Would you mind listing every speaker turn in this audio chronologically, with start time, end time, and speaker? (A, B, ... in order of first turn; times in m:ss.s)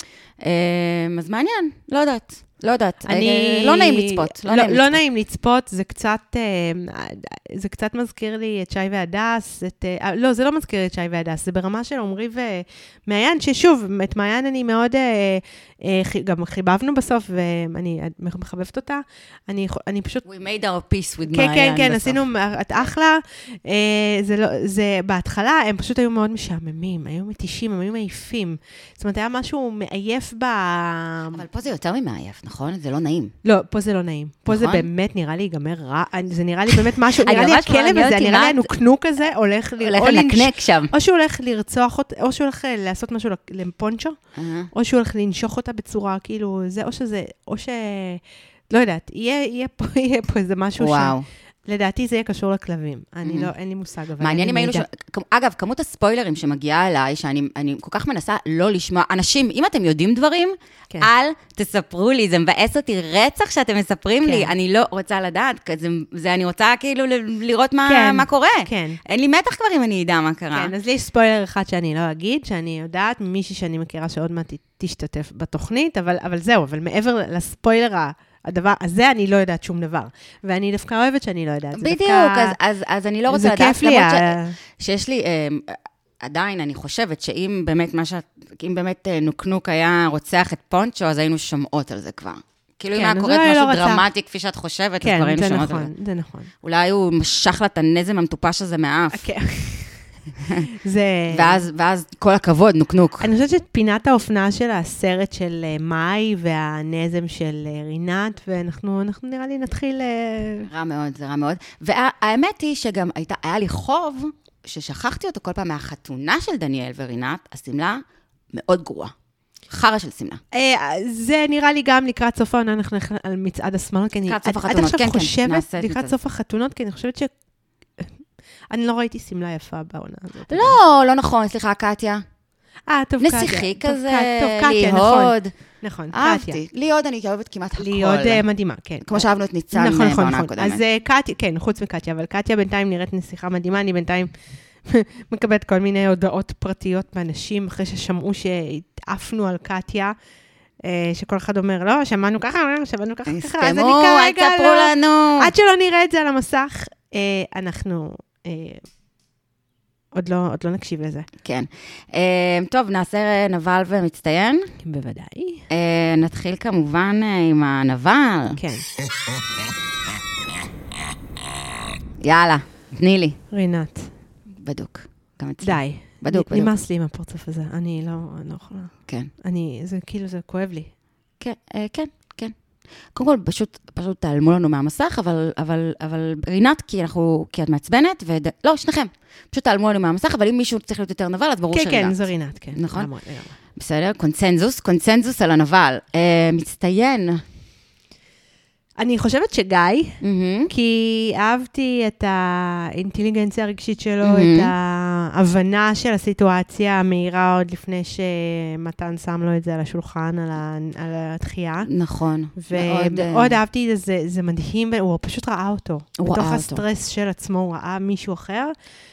0:00.4-0:05.0 A
0:03.0-0:20.2 B
0:20.2-0:22.3 A
0:21.3-0:31.4 B
0:31.3-0:33.3 A
0:33.4-0:44.2 B
0:34.5-0:34.9 A
0:37.0-0:38.7 A
0:39.8-0:40.9 A
0:44.4-0:44.7 A
0:44.7-0:54.8 B
0:50.8-0:51.2 A
0:53.2-0:53.5 A
0:54.2-1:10.7 A
1:04.2-1:04.5 B
1:07.8-1:09.0 B
1:10.5-1:22.6 B
1:21.8-1:35.9 A
1:23.3-1:24.5 B
1:32.9-1:34.0 B
1:35.0-1:36.5 B
1:36.6-1:39.2 A
1:39.1-1:40.0 B
1:40.7-1:41.6 B
1:41.3-1:43.3 A
1:43.2-1:50.7 B
1:50.7-1:59.1 A
1:59.7-2:00.4 A
2:00.5-2:07.3 B
2:04.3-2:06.1 A
2:08.7-2:10.8 B
2:10.5-2:12.2 A
2:12.9-2:16.6 B
2:13.2-2:15.6 A
2:16.1-2:18.4 A
2:17.8-2:24.3 B
2:19.0-2:20.8 A
2:24.8-2:30.1 B
2:30.8-2:38.8 B
2:33.3-2:35.5 A
2:40.1-2:41.3 B
2:41.4-2:44.7 A
2:44.8-2:45.6 B
2:45.7-2:48.6 A
2:48.6-2:48.8 B
2:52.2-2:53.4 A
2:53.5-2:54.1 B
2:54.6-2:56.7 A
2:55.6-3:00.9 B
3:01.4-3:02.5 A
3:03.1-3:12.2 A
3:11.7-3:13.6 B
3:12.7-3:13.1 A
3:13.7-3:17.4 A
3:19.0-3:31.9 B
3:20.2-3:20.7 A
3:24.2-3:24.7 A
3:31.8-3:33.6 A
3:32.6-3:38.7 B
3:36.2-3:36.8 A